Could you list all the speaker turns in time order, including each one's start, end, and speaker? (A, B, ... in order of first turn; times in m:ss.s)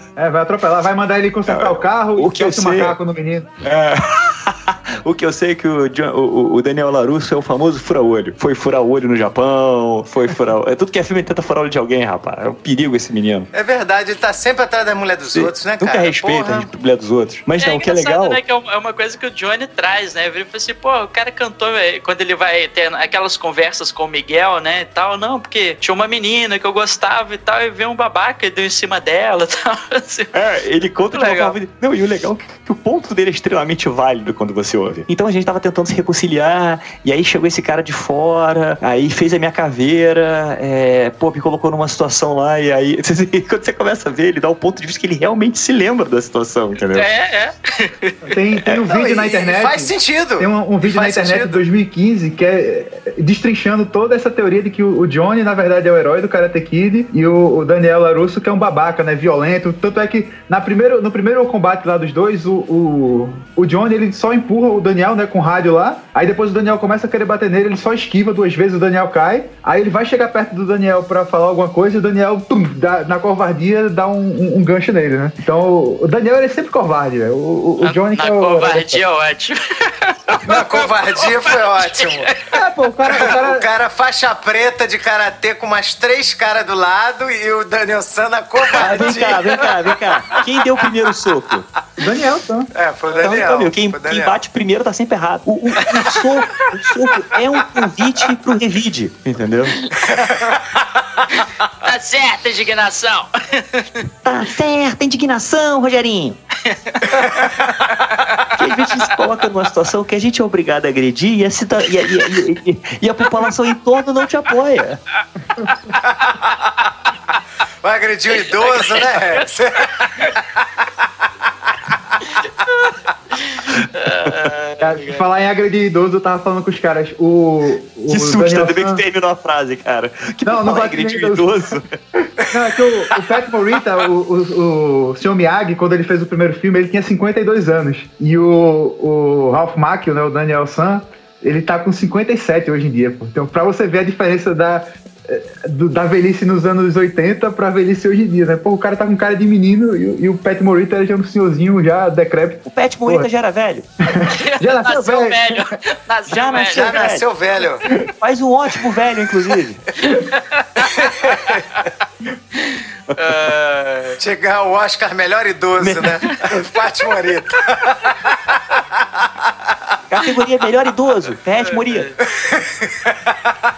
0:00.2-0:03.5 A
0:01.5-0:03.0 B
0:03.6-0:13.5 B
0:13.5-0:16.7 C
0:15.3-0:18.4 B
0:17.6-0:30.3 D
0:30.3-0:47.1 B
0:31.1-0:31.6 D
0:46.9-0:48.3 D
0:48.2-1:19.0 A
0:48.8-0:51.6 C
1:17.8-1:22.5 D
1:20.4-1:22.3 C
1:22.5-1:23.6 A
1:23.1-1:29.8 C
1:28.8-1:29.2 A
1:28.8-1:31.6 B
1:32.0-1:32.7 A
1:32.7-1:34.4 C
1:33.2-1:39.7 B
1:35.9-1:36.7 D
1:39.8-1:40.3 D
1:40.1-1:40.5 C
1:41.3-1:44.0 D
1:44.2-1:46.4 B
1:46.6-1:47.5 D
1:47.4-1:47.9 C
1:48.1-1:49.2 D
1:48.5-1:55.0 B
1:56.0-1:56.6 C
1:57.8-2:00.6 C
1:58.3-2:00.3 D
2:02.2-2:05.2 D
2:04.8-2:09.0 A
2:08.1-2:12.0 B
2:10.4-2:11.7 A
2:12.2-2:33.3 A
2:32.7-2:33.9 B
2:34.0-2:35.7 A
2:34.3-2:36.9 D
2:36.3-2:37.3 B
2:36.7-2:37.8 C
2:38.0-2:39.8 B
2:40.0-2:41.9 D
2:40.9-2:41.6 C
2:42.5-2:44.2 D
2:44.2-2:48.2 C
2:45.8-2:46.6 B
2:50.1-2:52.1 B
2:51.6-2:52.2 D
2:52.4-2:53.1 C